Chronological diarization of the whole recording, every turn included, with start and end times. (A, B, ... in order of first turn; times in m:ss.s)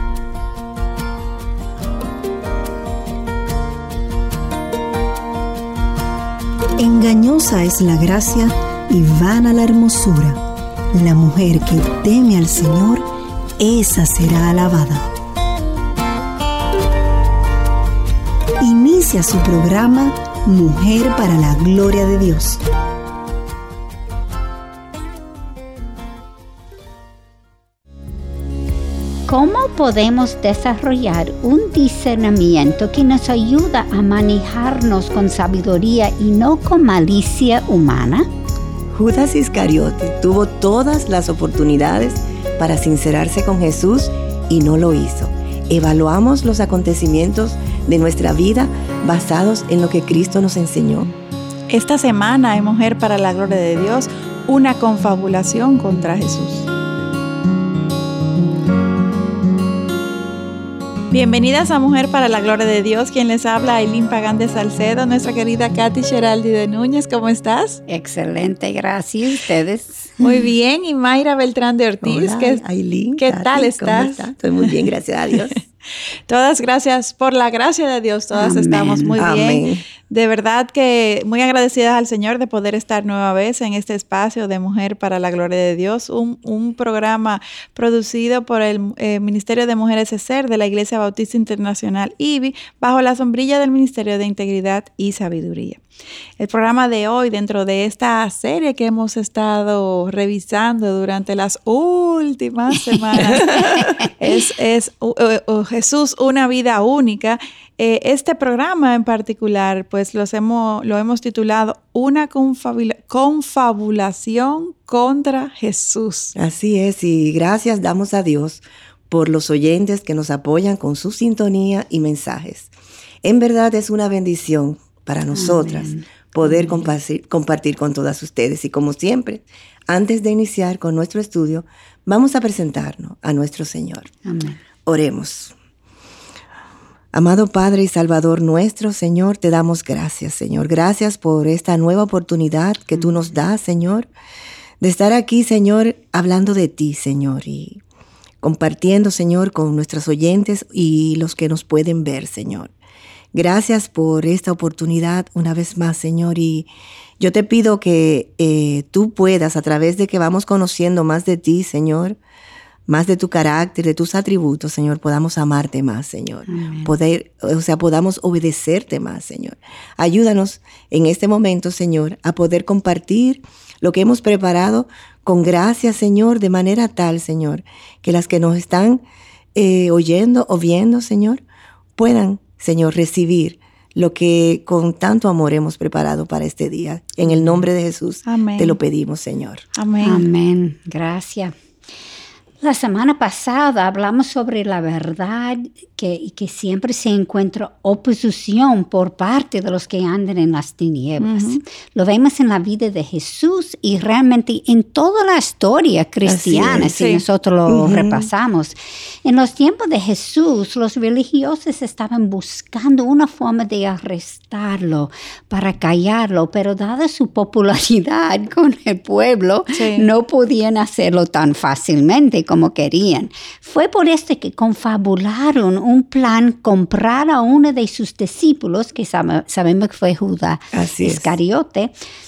0:06.8-0:10.4 A
0:10.9-0:13.0 A
0:13.6-0:15.0 A
0:18.6-0:22.6 A
0:29.3-0:38.3 B
0:38.9-0:51.1 C
0:51.7-0:56.7 D
1:01.1-1:07.8 D
1:07.9-1:10.2 B
1:10.2-1:12.6 D
1:12.0-1:15.6 C
1:13.2-1:14.7 D
1:16.3-1:35.8 D
1:18.3-1:19.2 B
1:19.2-1:19.8 C
1:36.4-1:56.3 D
1:42.9-1:44.1 B
1:56.4-2:02.7 C
2:03.2-2:14.1 C
2:05.3-2:06.8 B
2:14.2-2:14.6 B
2:14.8-2:15.5 C
2:17.1-2:24.1 C
2:24.8-2:27.8 C
2:28.4-2:32.7 C
2:33.3-2:42.2 C
2:42.9-2:59.0 C
2:46.5-2:46.9 B
2:59.5-3:01.4 C
3:02.0-3:09.6 C
3:08.2-3:08.8 D
3:09.8-3:10.3 D
3:10.0-3:11.5 B
3:12.6-3:51.9 B
3:21.2-3:21.6 D
3:26.2-3:26.9 C
3:26.9-3:27.2 D
3:27.7-3:28.3 C
3:39.7-3:40.1 D
3:50.7-3:51.3 C